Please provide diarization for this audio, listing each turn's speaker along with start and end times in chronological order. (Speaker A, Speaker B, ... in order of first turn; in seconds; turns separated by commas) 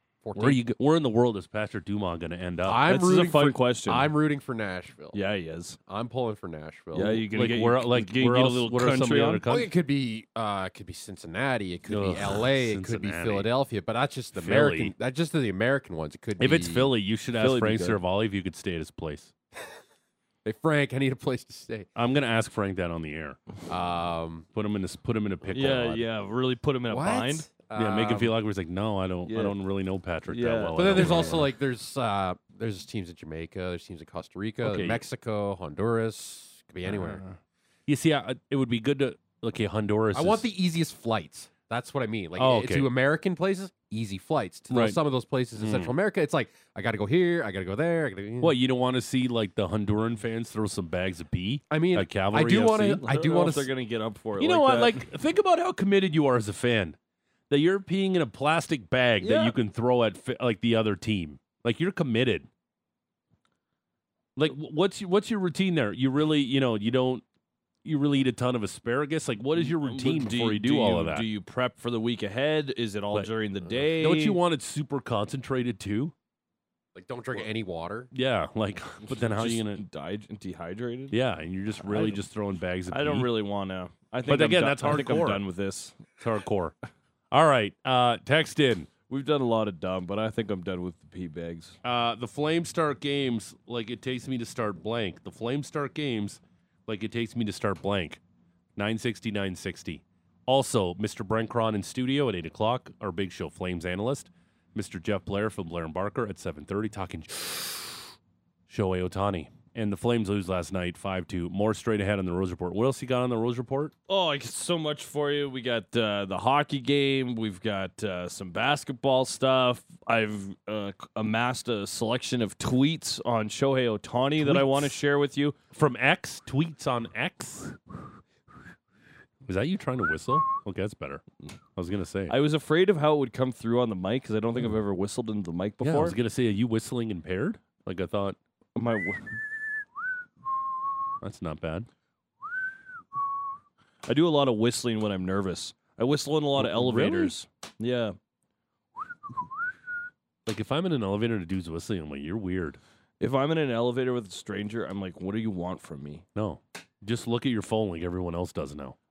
Speaker A: 0.2-0.6, Speaker B: 0.3-2.9, Speaker A: 2.6-5.2, Speaker C: 2.8-4.1, Speaker C: 5.1-5.8, Speaker A: 5.9-7.2, Speaker C: 6.9-9.4, Speaker B: 7.3-9.7, Speaker A: 9.4-16.9, Speaker B: 11.9-13.5, Speaker B: 14.3-14.9, Speaker B: 16.4-19.3, Speaker C: 17.4-18.0, Speaker A: 20.4-21.9, Speaker B: 21.9-23.4, Speaker A: 23.7-24.5, Speaker B: 24.5-26.1, Speaker C: 25.5-27.5, Speaker A: 26.9-28.3, Speaker B: 27.7-31.5, Speaker C: 29.3-29.5, Speaker C: 30.3-31.3, Speaker A: 30.7-37.2, Speaker C: 34.7-35.0, Speaker B: 36.8-37.3, Speaker B: 37.9-40.5, Speaker A: 40.1-48.5, Speaker B: 42.4-42.9, Speaker B: 44.7-45.0, Speaker B: 45.6-45.9, Speaker B: 48.4-53.0, Speaker A: 51.7-53.7, Speaker C: 53.0-55.0, Speaker B: 54.4-57.0, Speaker B: 57.5-62.5, Speaker C: 59.2-59.5, Speaker B: 64.3-67.2, Speaker B: 67.8-71.3, Speaker C: 69.6-74.4, Speaker B: 73.1-76.1, Speaker A: 76.9-78.1, Speaker B: 78.1-79.8, Speaker C: 79.0-81.2, Speaker B: 81.1-83.3, Speaker C: 81.8-82.2, Speaker C: 82.9-86.0, Speaker B: 84.3-85.4, Speaker B: 86.2-86.7, Speaker B: 87.3-88.9, Speaker C: 89.1-91.8, Speaker B: 91.8-98.2, Speaker B: 98.8-108.0, Speaker B: 108.7-113.9, Speaker C: 114.1-125.5, Speaker B: 124.4-124.9, Speaker B: 125.7-127.8, Speaker B: 129.4-131.2, Speaker B: 131.8-132.3, Speaker C: 132.3-136.2, Speaker B: 135.8-138.4, Speaker C: 138.8-139.4, Speaker B: 141.2-141.9, Speaker C: 144.1-148.2, Speaker B: 146.6-147.3, Speaker B: 150.4-152.8, Speaker C: 153.2-156.2, Speaker B: 156.3-158.9